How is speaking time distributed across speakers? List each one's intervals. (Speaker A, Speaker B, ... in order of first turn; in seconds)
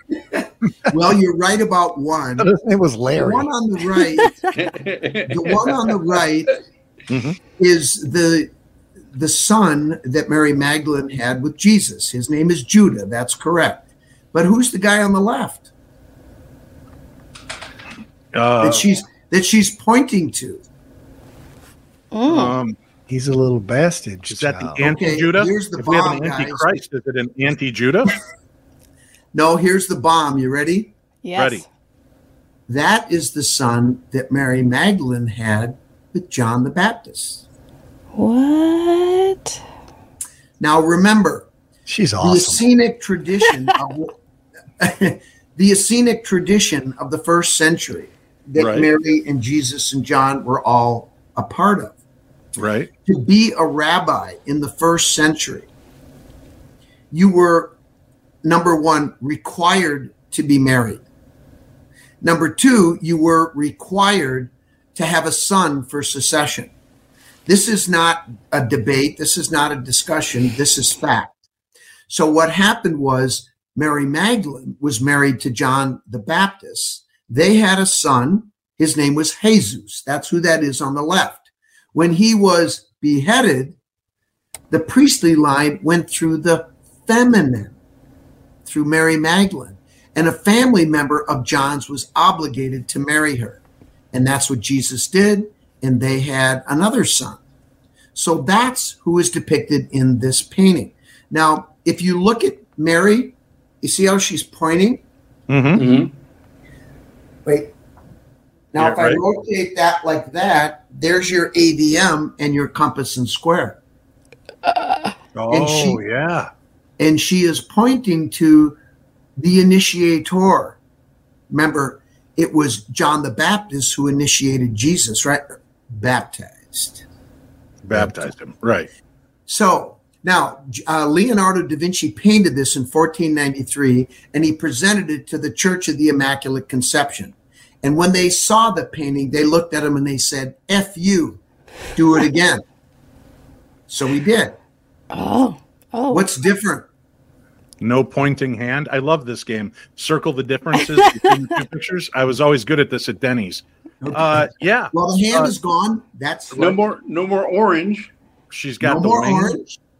Speaker A: 0.3-2.6, 3.1-4.3, 5.3-6.6, 7.6-8.5, 9.1-15.7, 18.6-20.6, 24.8-26.6, 29.3-30.9, 32.7-37.4, 40.6-41.5, 42.2-44.2, 44.8-52.0, 53.1-55.7, 57.1-57.7, 58.4-61.0, 62.2-66.7, 67.5-71.3, 72.1-83.8, 84.7-87.7, 88.7-93.6, 94.1-97.4, 98.2-105.0, 107.5-107.7, 108.7-113.8, 115.5-116.0, 117.0-118.8, 119.4-120.8, 121.5-127.0, 129.5-141.4, 141.9-142.6, 143.9-144.6, 146.1-146.9, 154.0-156.8, 158.8-159.8
Speaker B: 2.4-3.5, 23.1-24.9, 41.9-42.6
Speaker C: 4.3-4.6, 22.1-22.6, 31.2-31.6, 38.2-39.6, 114.7-115.1, 145.1-146.3
Speaker D: 4.5-5.9, 105.8-106.1, 156.6-158.1
Speaker E: 7.1-7.4, 18.3-18.9, 22.3-22.8, 24.3-28.1, 31.4-31.6, 48.5-48.9, 52.6-52.9, 105.5-105.8, 108.8-109.2, 115.3-116.5, 127.8-128.9, 147.8-155.5, 158.5-159.6